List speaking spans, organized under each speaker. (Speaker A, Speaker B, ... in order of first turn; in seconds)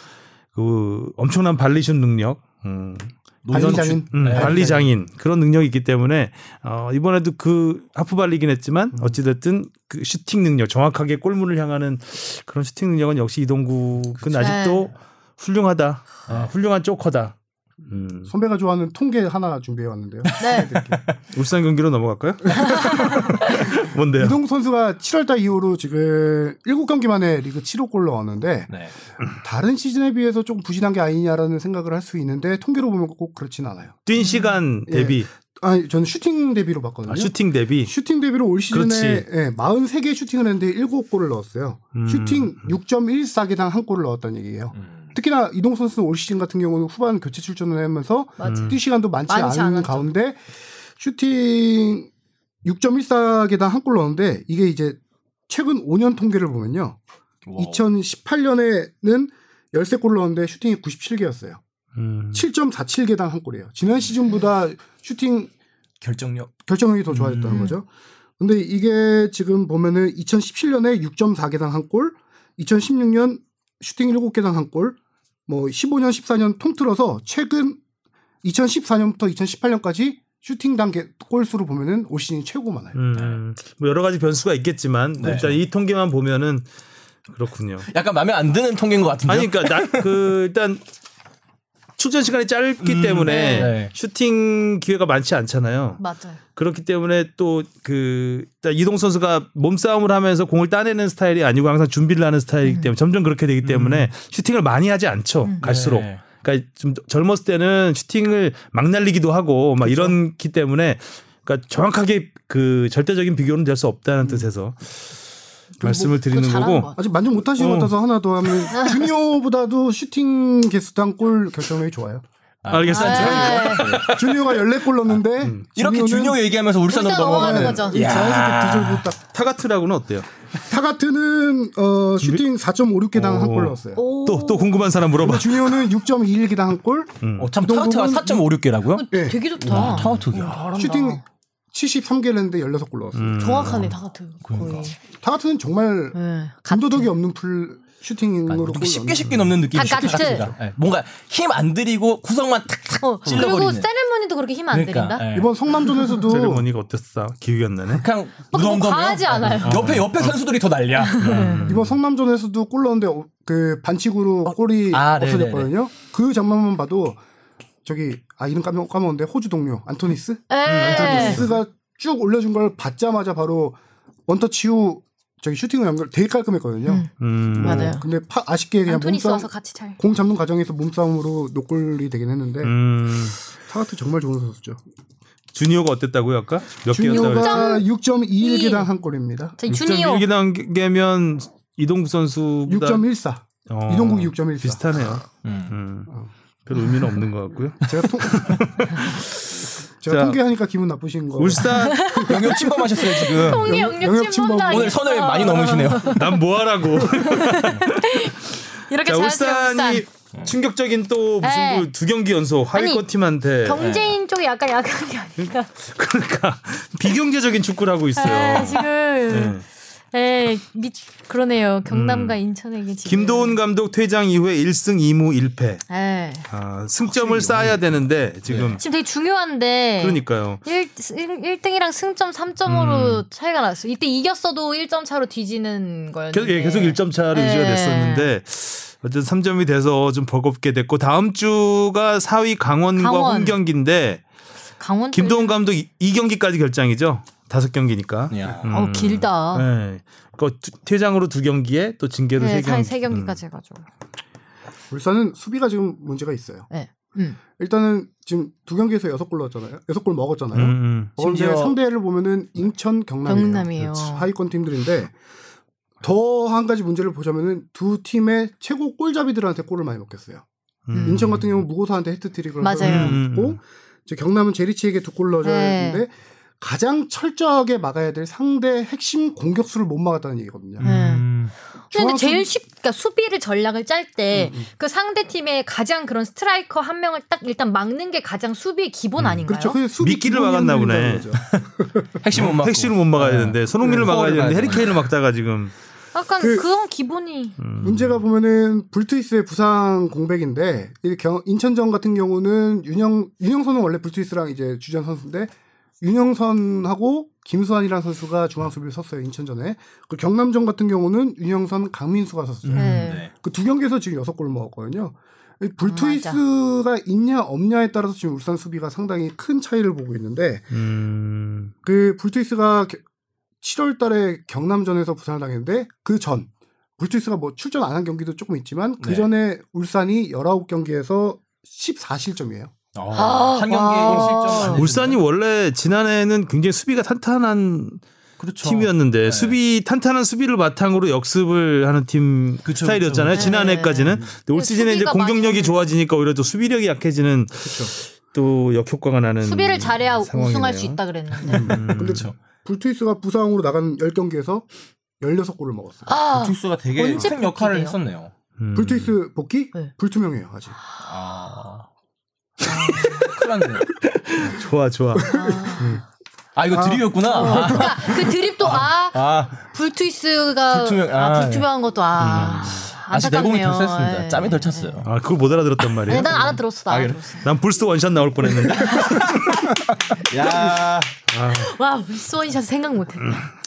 Speaker A: 0.6-18.3, 21.3-24.4, 34.1-35.3, 37.1-37.9, 38.7-39.3, 42.0-42.7, 48.4-48.8, 62.0-62.4, 67.1-67.7, 83.0-86.7, 87.3-87.9, 89.3-90.8, 92.0-96.0, 96.5-115.1, 115.8-116.9, 117.6-117.9, 122.7-124.6, 129.2-130.3, 133.1-135.8, 137.2-137.5, 143.2-143.9, 156.3-158.1, 159.6-160.4, 161.2-162.0, 170.7-171.6, 177.2-178.0, 182.6-183.4, 185.5-187.8, 189.7-193.1, 193.7-196.1, 196.7-200.4, 201.4-202.4, 206.1-208.3, 208.9-214.1, 215.4-219.7, 221.9-222.4, 223.1-225.8, 226.5-228.8, 230.0-230.6, 232.7-233.2, 236.3-244.2, 245.1-253.4, 260.5-261.2, 270.9-271.5, 272.8-273.6, 289.2-289.4, 290.0-291.6, 292.3-295.7, 297.6-298.2, 320.7-321.7, 334.7-338.0, 338.6-352.3, 358.6-359.1, 362.6-363.4, 364.1-366.0, 372.2-372.9, 375.0-376.6, 377.3-379.6, 381.3-381.7, 383.2-383.5
Speaker B: 3.4-4.9, 44.8-45.1, 57.5-57.8, 66.0-66.5, 83.1-83.4, 85.2-85.5, 87.9-90.3, 92.8-93.9, 103.6-104.1, 105.6-106.2, 122.6-124.6, 125.8-129.1, 137.4-139.1, 139.7-140.7, 143.6-143.9, 144.4-144.9, 148.5-153.9, 154.7-155.6, 157.9-161.7, 164.5-165.7, 195.4-195.7, 202.1-203.7, 204.7-206.3, 213.8-214.2, 227.2-227.8, 228.5-228.8, 248.3-248.6, 261.2-261.8, 280.8-281.5, 292.2-295.1, 312.6-313.3, 329.0-329.3, 332.9-335.2, 338.4-339.6, 342.6-343.6, 352.0-352.3, 356.3-358.3, 361.0-361.9, 362.9-363.9, 366.6-369.6, 370.7-371.7, 372.9-375.1, 376.0-377.2, 378.5-381.1
Speaker C: 3.5-4.9, 18.3-21.0, 22.5-28.7, 29.4-34.0, 34.9-50.4, 51.0-52.1, 52.6-55.0, 55.5-57.0, 57.6-61.6, 62.3-65.5, 66.7-67.9, 68.4-77.8, 78.4-83.0, 109.8-110.1, 115.8-116.1, 117.0-122.2, 123.1-126.4, 127.3-129.2, 130.7-134.0, 135.2-138.5, 139.1-141.2, 141.7-143.6, 145.1-146.2, 146.7-150.6, 155.3-156.7, 161.7-167.2, 167.8-182.7, 183.6-184.8, 186.9-189.6, 192.7-194.8, 197.8-198.7, 200.0-205.0, 248.4-248.7, 254.9-256.7, 257.6-265.1, 266.0-270.4, 271.0-280.9, 281.9-282.5, 284.3-284.7, 289.5-292.0, 293.8-294.8, 296.4-296.7, 297.8-320.7, 321.8-323.0, 323.6-332.7, 333.7-334.7, 347.6-347.9, 351.4-354.7, 355.2-356.1, 358.8-360.8, 365.2-366.0, 366.7-367.9
Speaker D: 14.3-14.9, 20.4-20.8, 22.7-23.4, 34.2-34.6, 48.4-50.1, 93.2-93.7, 96.0-96.4, 102.6-102.9, 115.8-117.0, 122.9-123.9, 126.9-128.2, 134.0-134.9, 138.9-141.2, 143.4-145.0, 146.1-147.1, 149.7-150.5, 153.0-155.3, 155.8-156.2, 158.5-160.0, 161.1-161.7, 170.5-171.4, 177.6-178.0, 178.9-180.0, 187.1-188.9, 189.6-190.3, 201.6-206.4, 207.1-210.1, 211.4-211.9, 212.7-213.0, 213.6-215.7, 218.2-223.6, 225.9-226.5, 228.8-238.3, 243.0-243.6, 244.8-245.6, 248.7-249.7, 252.4-253.9, 256.7-257.4, 263.2-264.3, 270.9-271.3, 272.6-273.2, 275.4-276.0, 280.8-281.3, 281.9-289.8, 296.1-297.6, 312.8-313.2, 315.9-316.4, 333.1-334.8, 343.3-345.9, 349.4-351.9, 356.1-358.0, 362.7-363.2, 365.3-366.0, 367.2-375.0, 376.1-377.5, 378.8-379.2, 381.5-383.4